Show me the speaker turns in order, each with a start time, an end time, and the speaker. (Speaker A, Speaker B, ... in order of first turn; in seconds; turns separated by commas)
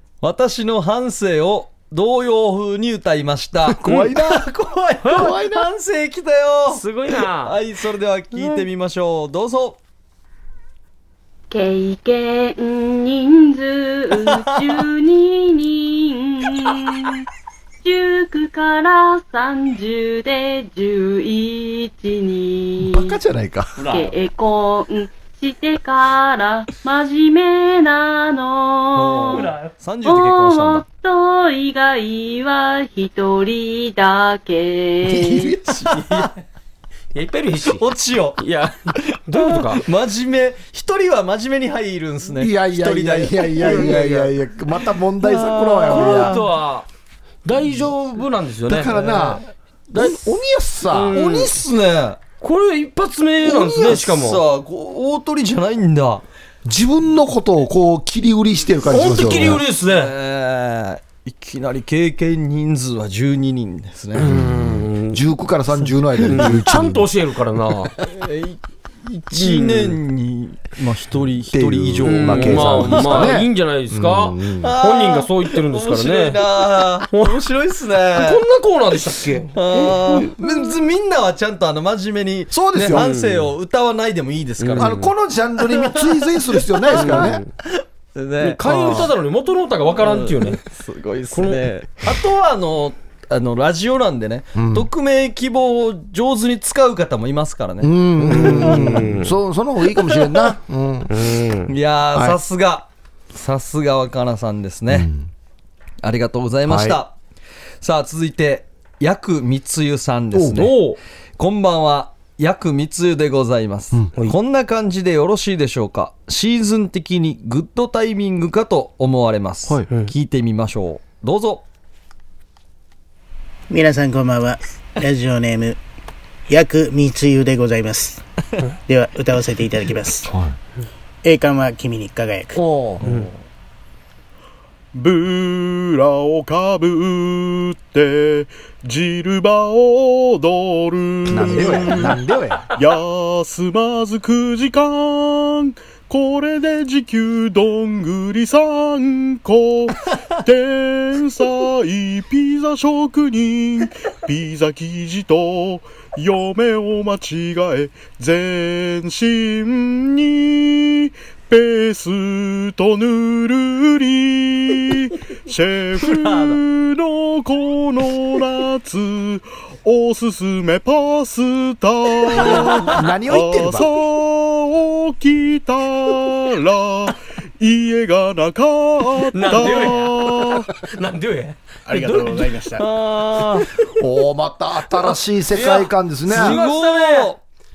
Speaker A: 0.2-9.8, Speaker B: 3.7-4.5, Speaker C: 5.0-5.3, Speaker B: 5.0-5.7, Speaker C: 6.7-7.5, Speaker D: 11.5-17.2, Speaker D: 17.8-23.2, Speaker B: 22.8-23.9, Speaker C: 23.8-24.1, Speaker D: 23.8-35.6, Speaker A: 28.9-30.9, Speaker C: 29.3-29.7, Speaker B: 35.0-36.0, Speaker A: 35.9-36.3, Speaker C: 37.1-37.9, Speaker A: 37.7-38.4, Speaker C: 38.4-39.9, Speaker A: 39.0-44.0, Speaker B: 42.4-46.4, Speaker C: 43.6-44.3, Speaker A: 45.2-46.4, Speaker C: 45.9-46.9, Speaker C: 47.5-49.4, Speaker B: 48.7-51.2, Speaker C: 50.9-51.5, Speaker A: 51.1-52.2, Speaker C: 52.4-54.4, Speaker A: 53.4-56.2, Speaker B: 56.6-59.6, Speaker C: 58.9-60.1, Speaker A: 59.2-64.3, Speaker B: 64.2-67.1, Speaker C: 64.2-65.2, Speaker A: 66.2-66.6, Speaker C: 66.3-67.9, Speaker A: 68.0-73.4, Speaker C: 69.3-70.0, Speaker B: 71.5-74.7, Speaker C: 72.0-77.4, Speaker A: 74.6-78.4, Speaker C: 78.2-80.4, Speaker A: 79.5-85.0, Speaker B: 82.5-83.1, Speaker C: 82.9-83.5, Speaker C: 84.6-85.1, Speaker B: 84.8-87.4, Speaker C: 86.9-87.5, Speaker A: 86.9-89.1, Speaker C: 88.4-90.6, Speaker A: 90.0-99.1, Speaker C: 91.3-91.7, Speaker B: 94.5-94.9, Speaker B: 97.8-101.3, Speaker C: 98.3-99.3, Speaker C: 101.1-101.7, Speaker A: 101.7-105.1, Speaker B: 102.1-102.4, Speaker B: 104.9-105.3, Speaker A: 106.0-107.2, Speaker B: 106.7-107.0, Speaker A: 107.8-110.8, Speaker C: 110.5-111.0, Speaker A: 111.4-121.6, Speaker E: 123.7-125.8, Speaker E: 126.5-128.2, Speaker E: 128.9-130.3, Speaker B: 130.3-130.6, Speaker E: 131.2-132.6, Speaker B: 132.6-133.2, Speaker C: 133.0-133.3, Speaker F: 134.9-142.2, Speaker B: 141.3-142.6, Speaker F: 142.8-180.7, Speaker A: 166.0-166.6, Speaker B: 172.4-173.9, Speaker A: 172.6-172.9, Speaker C: 179.3-182.5, Speaker E: 181.9-182.9, Speaker A: 182.8-183.7, Speaker B: 184.0-186.6, Speaker C: 185.6-187.3, Speaker A: 185.6-187.4